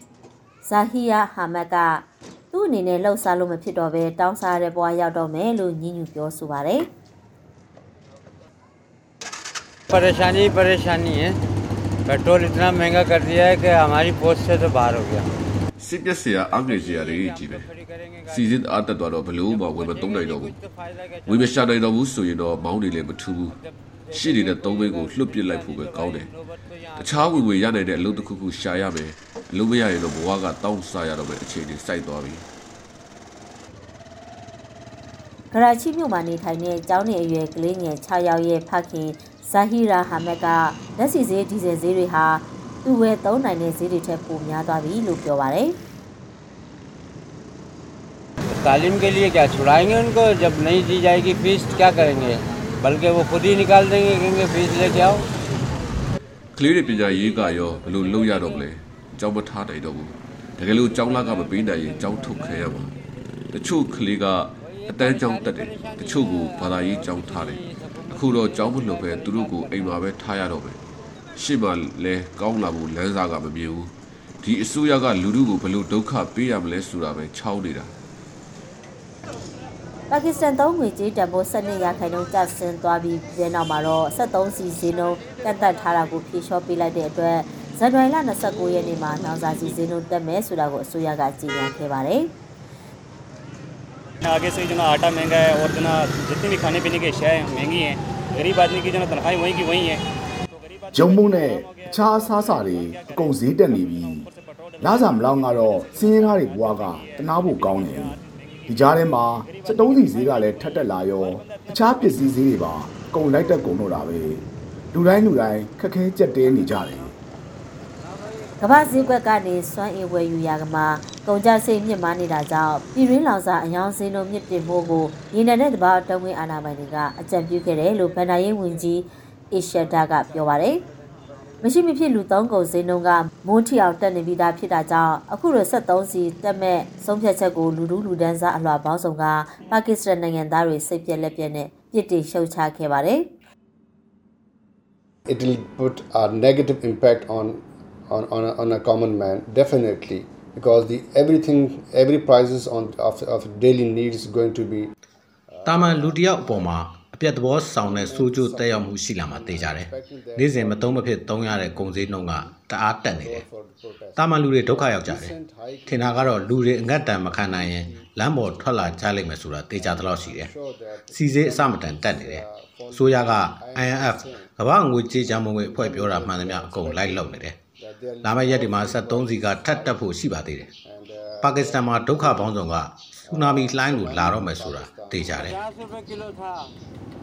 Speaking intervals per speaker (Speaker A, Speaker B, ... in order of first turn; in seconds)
Speaker A: 0.6-6.9, 35.5-45.8, 80.1-92.3, 118.6-130.8, 131.6-143.3
Speaker B: 9.9-11.4, 12.1-15.3, 16.6-18.6, 19.5-21.7, 24.1-27.6, 48.5-55.3, 64.6-69.9, 185.4-186.7
Speaker C: 15.8-17.7, 18.3-20.6, 21.3-23.6, 24.1-26.3, 27.0-32.5, 56.5-63.0, 63.5-70.8, 71.4-77.9
Speaker D: 94.2-100.0, 100.8-108.2, 109.4-112.2
Speaker E: 100.9-104.3, 104.8-117.1
Speaker F: 145.3-154.9, 155.5-156.7, 157.8-162.5, 163.1-168.8, 169.8-174.5, 175.3-180.1, 180.8-182.6, 183.2-185.4
Speaker G: 155.7-163.4, 164.2-165.3, 165.9-170.5, 171.1-177.6, 178.2-180.7, 181.4-185.6